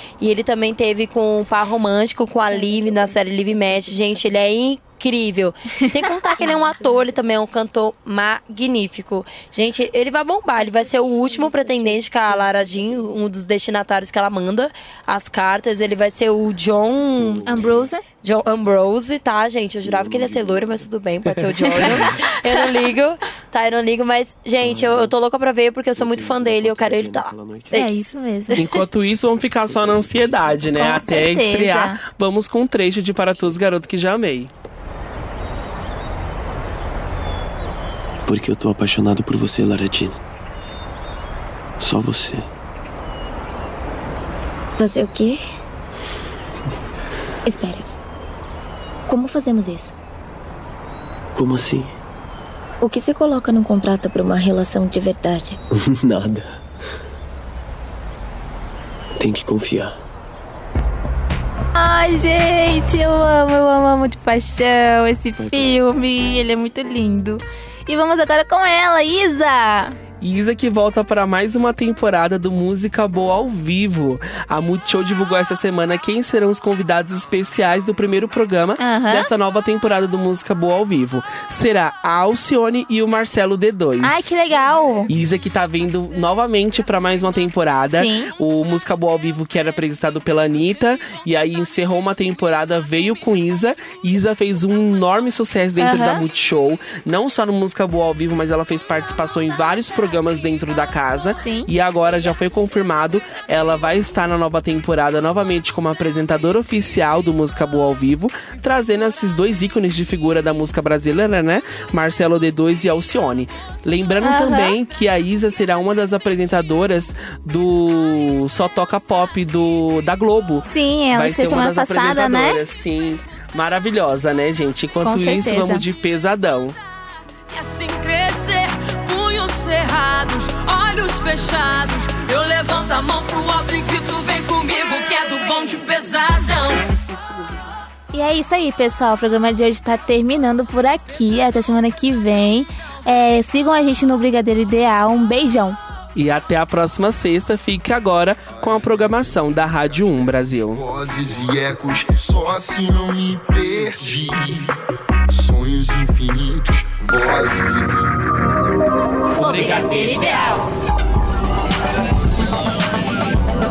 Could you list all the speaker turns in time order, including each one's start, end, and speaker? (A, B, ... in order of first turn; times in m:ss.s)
0:00.2-0:17.6 A
0:02.4-0:04.5 B
0:06.2-0:07.4 B
0:10.5-0:13.2 B
0:17.2-0:17.9 C
0:17.5-0:18.0 D
0:18.2-0:27.8 A
0:19.8-0:22.3 C
0:21.6-0:22.3 D
0:24.6-0:25.1 C
0:25.9-0:28.1 C
0:27.7-0:28.7 D
0:28.5-0:34.5 E
0:29.6-0:30.9 C
0:30.7-0:32.0 D
0:38.3-0:40.2 C
0:41.8-0:42.5 C
0:44.8-0:45.4 B
0:47.4-0:47.9 B
0:49.1-0:49.9 B
0:51.4-0:51.9 C
0:52.8-0:55.6 B
0:55.8-0:56.6 C
0:59.2-1:00.0 C
1:01.8-1:10.0 D
1:05.4-1:05.7 C
1:10.2-1:24.3 E
1:18.8-1:19.3 D
1:24.0-1:25.1 D
1:25.1-2:06.8 E
1:27.9-1:28.3 D
1:35.8-1:36.2 D
1:41.4-1:41.7 D
1:54.2-1:54.8 D
2:00.6-2:02.6 D
2:05.0-2:05.8 D
2:07.5-2:16.6 F
2:18.1-2:25.8 D
2:26.2-2:30.8 E
2:28.5-2:34.8 G
2:35.3-2:38.2 G
2:39.4-2:40.5 E
2:39.4-2:40.7 D